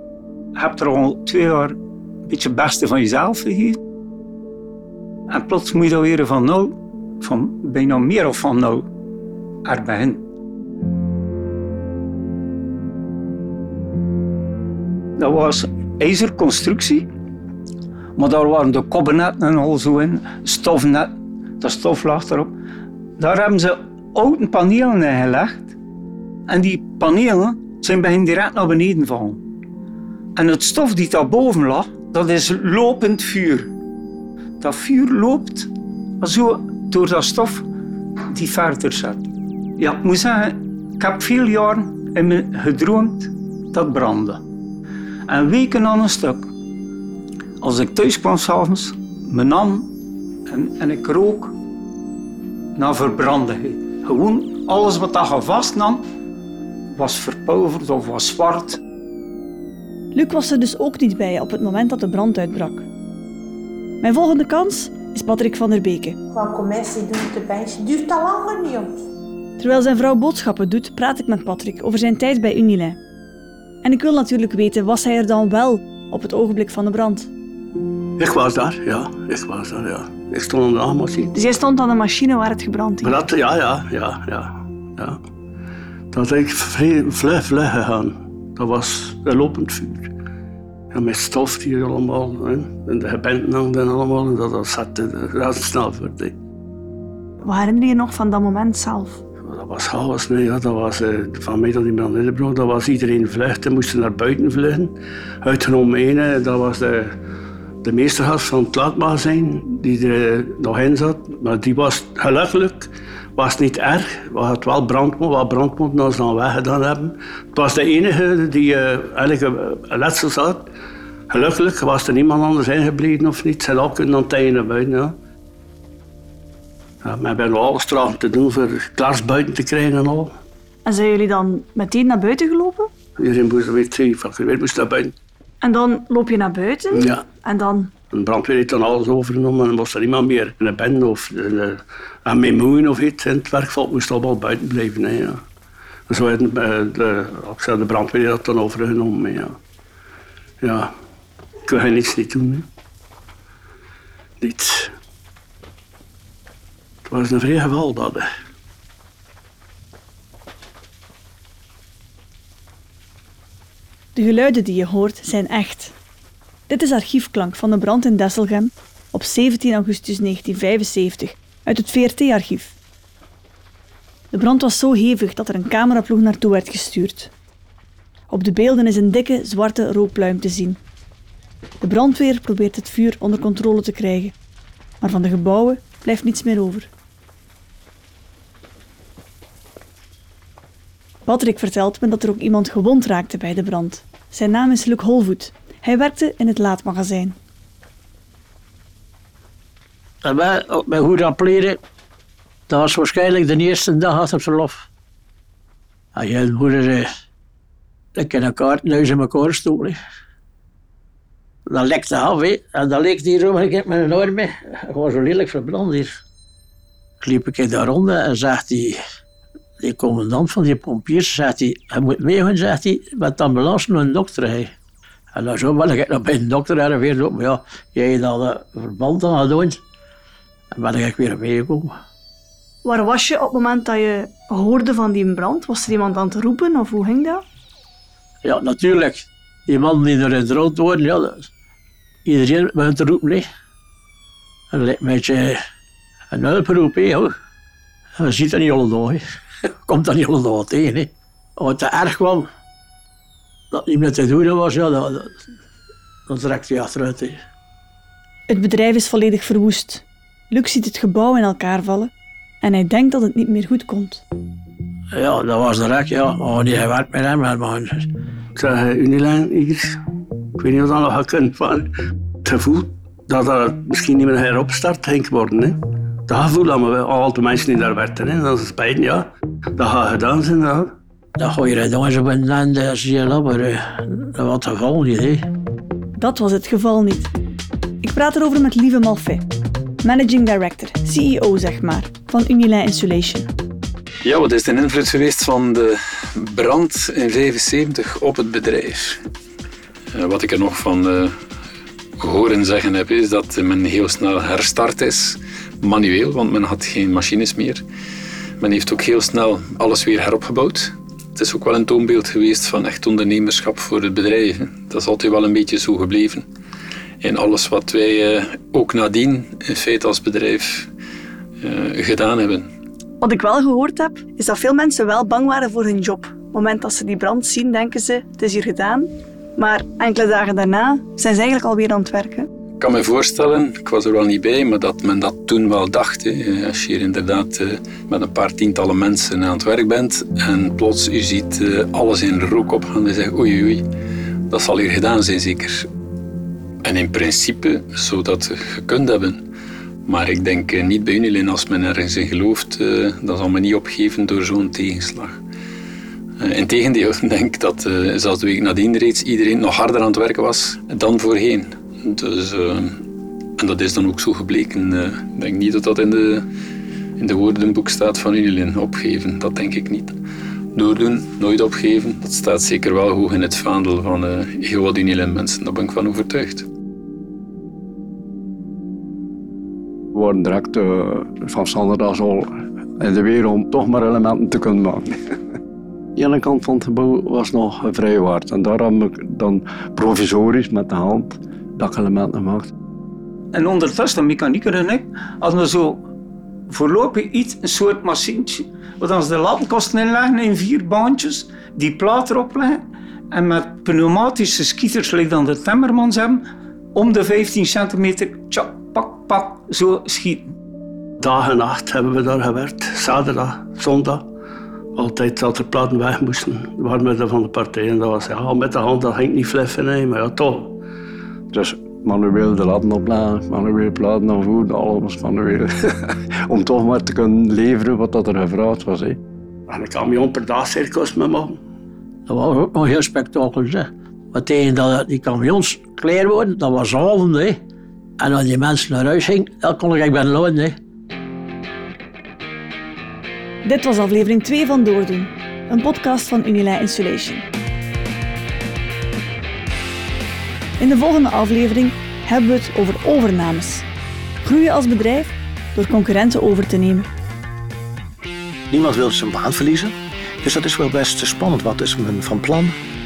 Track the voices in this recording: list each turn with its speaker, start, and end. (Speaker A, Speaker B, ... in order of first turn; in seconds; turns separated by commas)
Speaker A: 0.6-3.8, Speaker A: 5.3-8.9, Speaker A: 9.6-10.2, Speaker A: 15.2-17.1, Speaker A: 18.1-22.5, Speaker A: 23.2-25.7, Speaker A: 26.5-29.4, Speaker A: 30.4-33.7, Speaker A: 34.6-37.7, Speaker A: 38.3-39.2, Speaker A: 39.8-44.4, Speaker A: 45.3-46.5, Speaker A: 47.6-49.9, Speaker A: 50.5-51.5, Speaker A: 52.8-56.0, Speaker A: 56.9-58.8, Speaker B: 60.1-62.9, Speaker B: 64.0-66.2, Speaker C: 66.3-69.0, Speaker B: 69.6-73.0, Speaker B: 73.8-77.3, Speaker D: 78.2-81.3, Speaker B: 81.3-83.1, Speaker D: 83.0-85.2, Speaker D: 86.1-90.0, Speaker D: 90.9-96.3, Speaker B: 97.4-99.2, Speaker D: 99.5-107.1, Speaker D: 107.8-120.7, Speaker D: 121.3-125.2, Speaker D: 127.0-130.3, Speaker B: 130.8-132.9, Speaker D: 133.2-135.1, Speaker B: 135.6-137.9, Speaker D: 136.9-137.2, Speaker D: 138.1-145.4, Speaker D: 146.1-149.6, Speaker D: 150.6-150.9, Speaker D: 151.7-152.7, Speaker D: 154.4-154.9, Speaker D: 157.1-158.3, Speaker B: 164.1-165.9, Speaker B: 166.7-172.8, Speaker B: 174.3-177.3, Speaker B: 178.3-180.8, Speaker B: 181.8-184.3, Speaker B: 185.0-186.9, Speaker B: 191.2-197.4, Speaker E: 200.2-201.8, Speaker E: 202.7-204.9, Speaker E: 206.1-207.1, Speaker E: 208.1-210.0, Speaker E: 211.7-216.2, Speaker E: 217.2-219.0, Speaker E: 219.8-224.7, Speaker E: 225.3-229.8, Speaker E: 230.7-231.9, Speaker B: 232.8-237.4, Speaker E: 238.4-241.5, Speaker E: 242.2-243.5, Speaker E: 244.7-245.6, Speaker E: 246.3-247.3, Speaker E: 248.2-249.2, Speaker E: 249.8-252.5, Speaker E: 253.7-255.4, Speaker E: 256.2-257.4, Speaker B: 258.5-262.1, Speaker B: 262.6-264.2, Speaker E: 265.1-268.1, Speaker D: 268.6-269.8, Speaker D: 270.6-271.9, Speaker D: 272.4-275.8, Speaker D: 276.3-279.2, Speaker D: 279.8-280.8, Speaker E: 281.4-285.5, Speaker B: 286.2-287.3, Speaker B: 288.0-289.4, Speaker B: 290.0-293.5, Speaker F: 294.2-299.2, Speaker F: 300.1-301.3, Speaker F: 302.2-307.8, Speaker F: 308.6-316.4, Speaker F: 317.2-320.9, Speaker F: 321.6-322.7, Speaker B: 323.2-332.5, Speaker F: 332.8-343.8, Speaker F: 344.5-345.9, Speaker F: 346.8-349.4, Speaker F: 350.1-355.4, Speaker F: 356.4-363.0, Speaker F: 363.6-366.4, Speaker F: 367.2-370.2, Speaker F: 370.7-376.7, Speaker G: 380.1-385.2, Speaker G: 386.2-392.7, Speaker A: 393.5-396.1, Speaker A: 396.7-406.4, Speaker A: 406.9-410.5, Speaker D: 411.2-414.2, Speaker D: 414.9-420.8, Speaker G: 421.5-429.2, Speaker D: 429.7-431.6, Speaker E: 432.2-437.6, Speaker E: 438.2-440.8, Speaker B: 443.6-447.4, Speaker B: 450.8-453.8, Speaker B: 454.4-457.1, Speaker H: 458.7-462.8